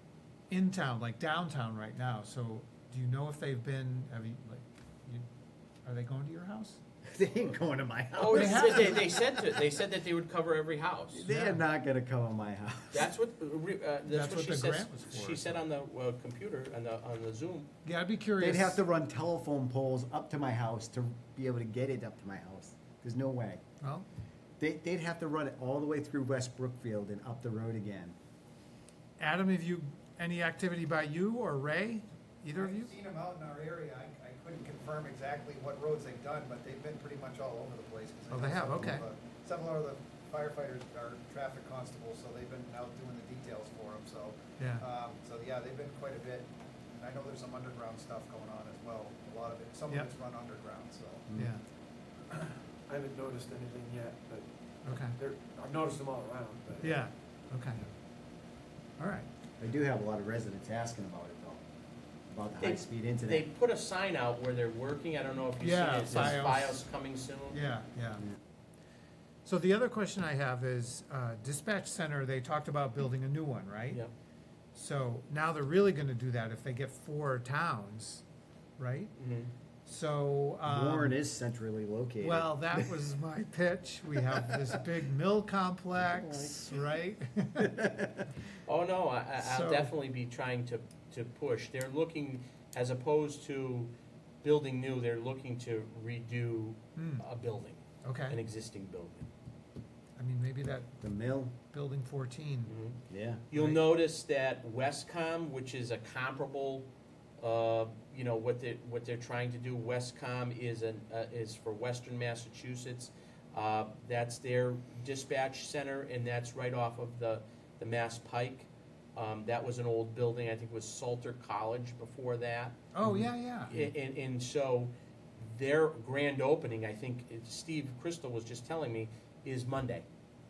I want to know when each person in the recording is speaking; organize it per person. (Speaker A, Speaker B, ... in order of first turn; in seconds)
Speaker A: 0.5-5.2, 5.8-6.8, 8.3-9.2, 11.2-11.6, 14.1-15.6, 17.8-18.8, 23.8-24.1, 29.2-32.9, 38.3-39.0, 44.6-44.8, 51.3-51.6, 54.8-55.2, 56.8-57.9, 59.0-59.3, 65.6-66.8, 67.5-68.2, 69.4-74.0, 74.7-78.2, 78.8-79.1, 79.8-81.2, 82.2-87.8, 89.4-89.9, 97.0-97.2, 98.0-98.4, 100.2-100.9, 101.7-102.7, 103.5-103.8, 122.9-123.9
Speaker B: 7.1-9.2, 11.1-13.1, 18.4-23.6, 24.6-28.1, 59.6-61.6, 62.3-63.5, 66.1-66.4, 80.7-83.0, 84.3-84.8, 86.0-86.8, 87.6-88.3, 101.0-101.5, 103.1-103.5
Speaker C: 8.2-11.2, 12.9-17.7, 62.6-67.6, 79.2-79.5, 88.7-99.3, 102.7-130.1
Speaker D: 32.6-51.2
Speaker E: 52.3-54.5, 55.2-57.0